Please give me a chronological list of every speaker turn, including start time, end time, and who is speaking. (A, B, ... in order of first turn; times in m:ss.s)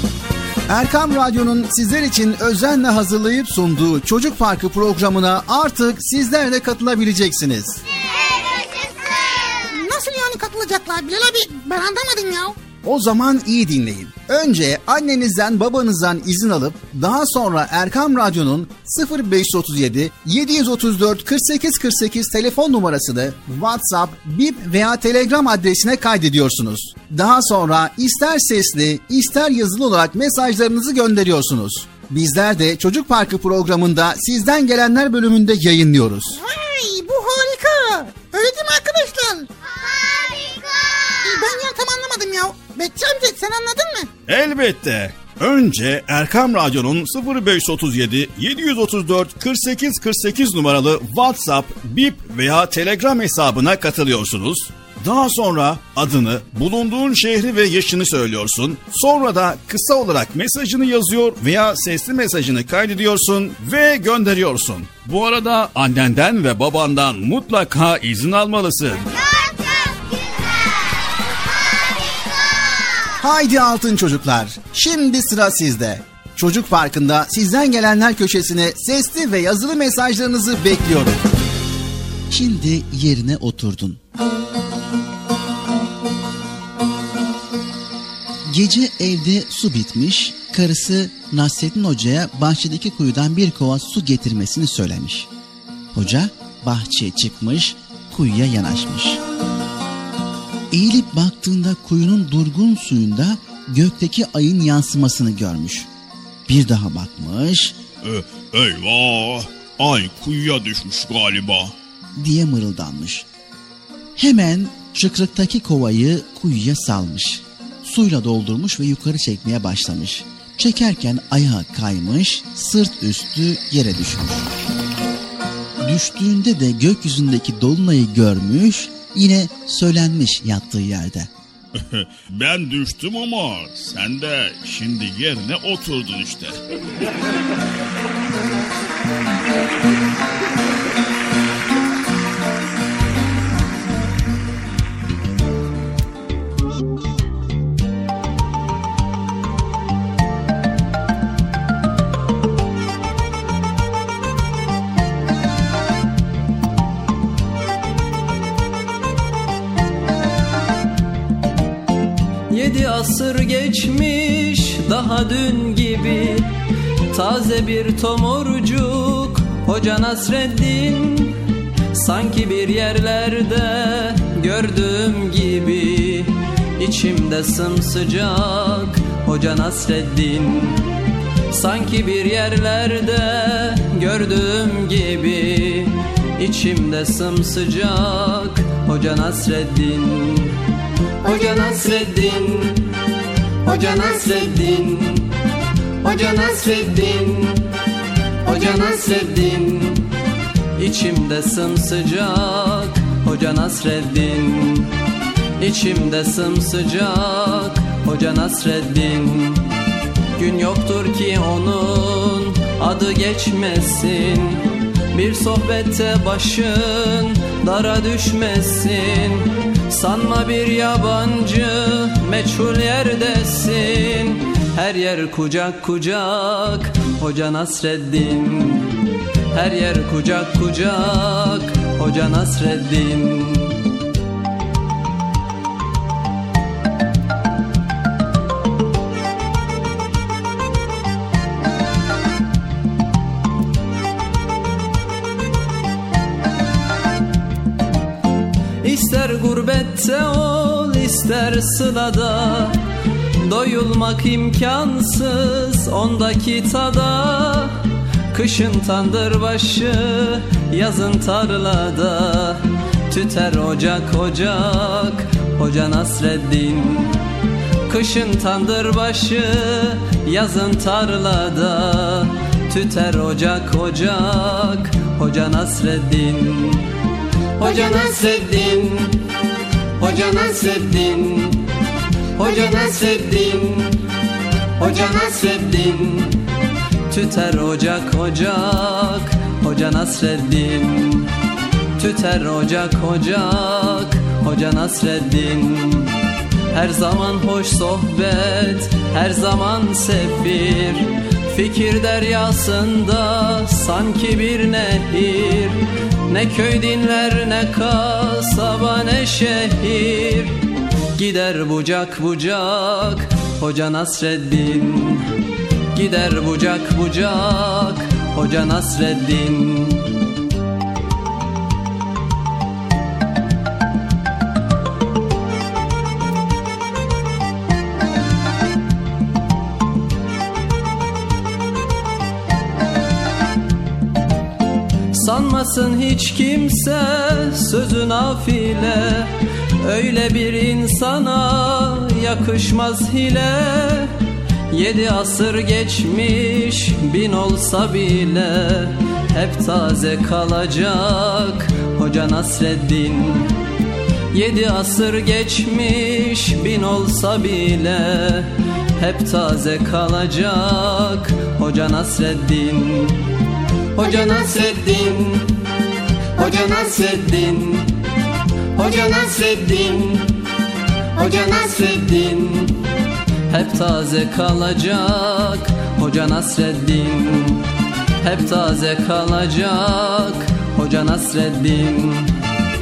0:00.7-0:07.8 A
0:07.9-0:09.7 B
0:09.7-0:12.6 C
0:12.8-0:36.4 A
0:36.4-0:39.5 C
0:39.6-0:41.6 B
0:41.2-0:44.1 C
0:44.3-1:09.0 D
1:09.1-1:13.2 B
1:13.2-1:21.3 A
1:22.3-1:24.0 A
1:28.4-1:35.3 A
1:35.9-1:39.2 A
1:40.7-1:45.9 A
1:46.5-1:47.8 A
1:48.0-1:51.7 D
1:52.2-1:53.3 A
1:54.2-2:04.5 A
2:05.8-2:11.3 A
2:11.8-2:16.6 D
2:42.5-2:46.5 E
2:47.1-2:51.4 E
2:51.9-3:00.9 E
3:01.5-3:10.6 E
3:11.2-3:12.9 E
3:13.6-3:15.3 E
3:16.0-3:17.7 E
3:18.4-3:20.1 E
3:20.8-3:24.9 E
3:25.6-3:29.7 E
3:30.3-3:49.0 E
3:49.5-3:53.8 E
4:08.8-4:12.8 E
4:13.4-4:17.8 E
4:18.3-4:27.2 E
4:27.9-4:36.9 E
4:37.6-4:39.2 E
4:40.0-4:41.7 E
4:42.4-4:44.0 E
4:44.8-4:46.4 E
4:47.1-4:51.3 E
4:52.0-4:56.1 E
4:56.7-5:10.6 E
5:11.1-5:15.3 E
5:15.9-5:20.1 E
5:35.1-5:39.3 E
5:39.8-5:44.1 E
5:44.7-5:53.5 E
5:54.3-6:03.2 E
6:04.0-6:05.6 E
6:06.4-6:08.0 E
6:08.8-6:10.4 E
6:11.1-6:12.8 E
6:13.5-6:17.7 E
6:18.2-6:22.3 E